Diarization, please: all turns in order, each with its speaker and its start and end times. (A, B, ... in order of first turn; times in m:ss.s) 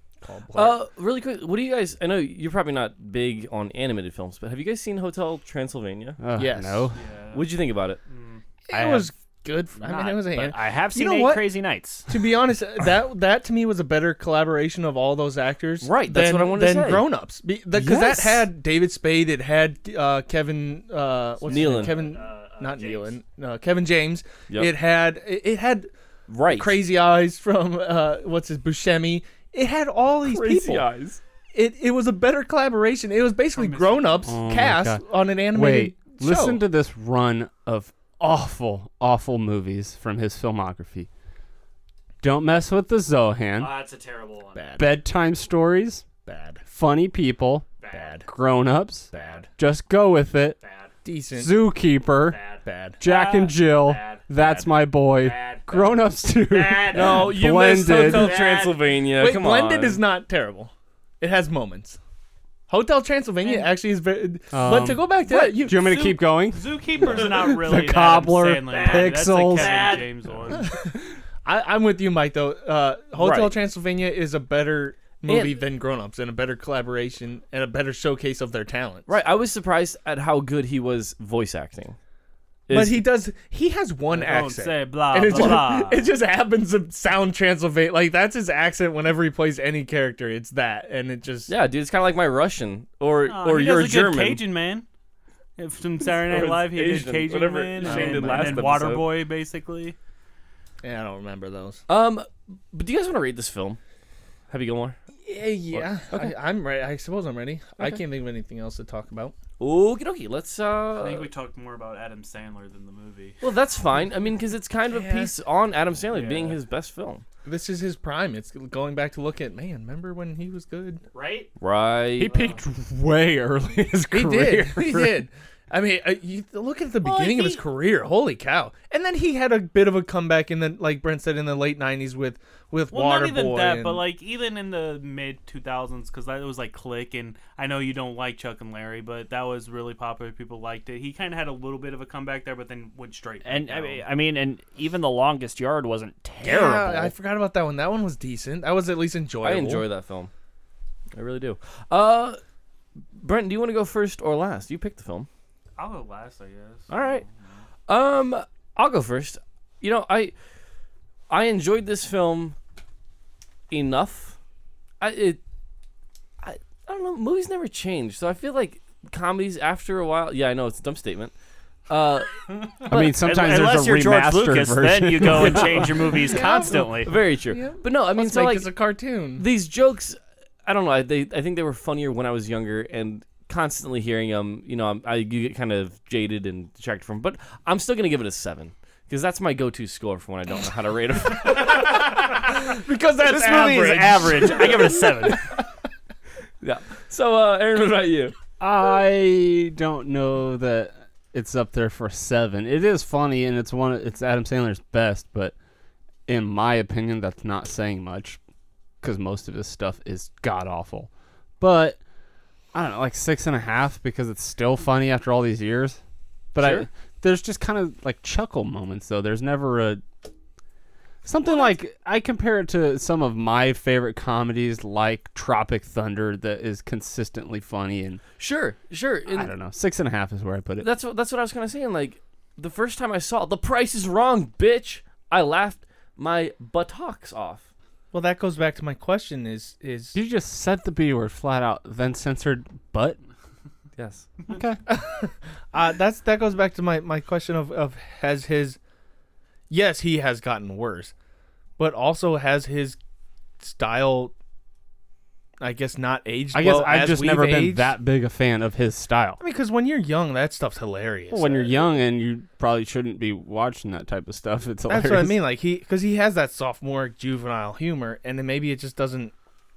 0:00.2-0:00.8 A
0:00.6-0:06.2 B
0:06.2-0:07.0 C
0:06.4-0:06.9 A
0:07.0-0:07.5 D
0:07.3-0:08.0 B
0:08.1-0:08.4 D
0:08.7-0:11.6 A
0:08.7-0:09.1 E
0:09.8-0:12.1 E
0:12.1-0:25.9 A
0:15.8-0:17.1 B
0:17.8-0:18.3 C
0:17.8-0:18.1 B
0:21.5-0:22.0 B
0:21.5-0:23.2 E
0:26.3-0:26.8 B
0:26.5-0:30.9 A
0:30.2-0:31.2 B
0:31.5-0:36.6 A
0:33.5-0:34.3 D
0:34.3-0:41.1 C
0:42.2-0:43.7 C
0:43.6-0:44.6 E
0:44.6-0:45.0 A
0:44.8-0:46.1 C
0:46.2-0:46.6 A
0:46.6-0:47.7 C
0:47.8-0:48.2 E
0:47.9-0:48.3 A
0:48.2-0:50.6 C
0:49.1-0:49.4 E
0:49.1-0:49.4 A
0:50.6-0:50.9 E
0:51.0-0:51.8 A
0:51.3-0:58.4 C
0:52.2-0:57.3 E
0:52.6-0:53.0 A
0:56.9-1:00.0 B
0:58.1-0:58.8 E
0:59.2-1:02.0 A
1:02.7-1:06.1 A
1:04.5-1:10.0 C
1:05.3-1:05.7 B
1:06.1-1:10.7 D
1:08.7-1:10.1 E
1:10.5-1:19.1 A
1:13.2-1:13.6 B
1:15.3-1:15.6 B
1:19.1-1:22.0 B
1:22.7-1:23.1 B
1:22.7-1:31.5 A
1:24.1-1:26.1 D
1:25.3-1:25.6 B
1:31.5-1:34.4 B
1:33.3-1:34.9 D
1:35.6-1:40.0 D
1:36.1-1:39.1 B
1:37.8-1:38.8 A
1:40.8-1:41.8 A
1:41.9-1:43.8 B
1:44.5-1:45.0 B
1:45.2-1:49.4 A
1:45.7-1:46.4 B
1:49.6-1:51.3 B
1:51.0-1:53.4 D
1:53.4-1:57.2 B
1:54.9-1:55.3 A
1:56.1-1:56.6 D
1:57.4-2:01.0 A
2:01.1-2:01.5 E
2:01.6-2:02.4 B
2:02.2-2:05.2 C
2:04.1-2:14.0 A
2:07.0-2:07.4 D
2:07.3-2:07.6 E
2:12.9-2:24.0 D
2:23.4-2:27.2 E
2:26.4-2:29.9 A
2:29.4-2:30.3 B
2:31.1-2:32.4 B
2:33.2-2:35.3 B
2:35.8-2:37.3 D
2:36.9-2:37.2 B
2:37.9-2:40.3 B
2:41.3-2:42.6 B
2:43.7-2:44.4 B
2:45.0-2:45.4 B
2:46.4-2:51.3 B
2:51.9-2:52.4 B
2:52.9-2:56.0 C
2:52.9-2:57.1 E
2:56.2-2:59.5 A
2:56.6-2:58.7 B
2:59.4-3:12.1 B
3:11.5-3:15.6 A
3:13.2-3:15.4 E
3:16.6-3:18.4 B
3:18.6-3:25.5 C
3:26.3-3:28.4 C
3:29.0-3:31.1 C
3:31.6-3:32.0 C
3:32.7-3:36.0 C
3:36.5-3:40.0 C
3:36.6-3:36.9 B
3:41.2-3:48.2 C
3:48.4-3:49.5 B
3:49.3-3:50.9 C
3:50.8-3:57.7 B
3:58.1-4:00.2 A
4:00.1-4:03.2 C
4:04.0-4:04.3 B
4:04.5-4:04.8 C
4:04.9-4:08.8 A
4:09.7-4:11.1 A
4:11.8-4:13.0 A
4:13.6-4:14.3 A
4:15.6-4:18.0 A
4:16.5-4:19.4 C
4:19.4-4:22.0 A
4:21.3-4:25.4 C
4:24.9-4:29.3 A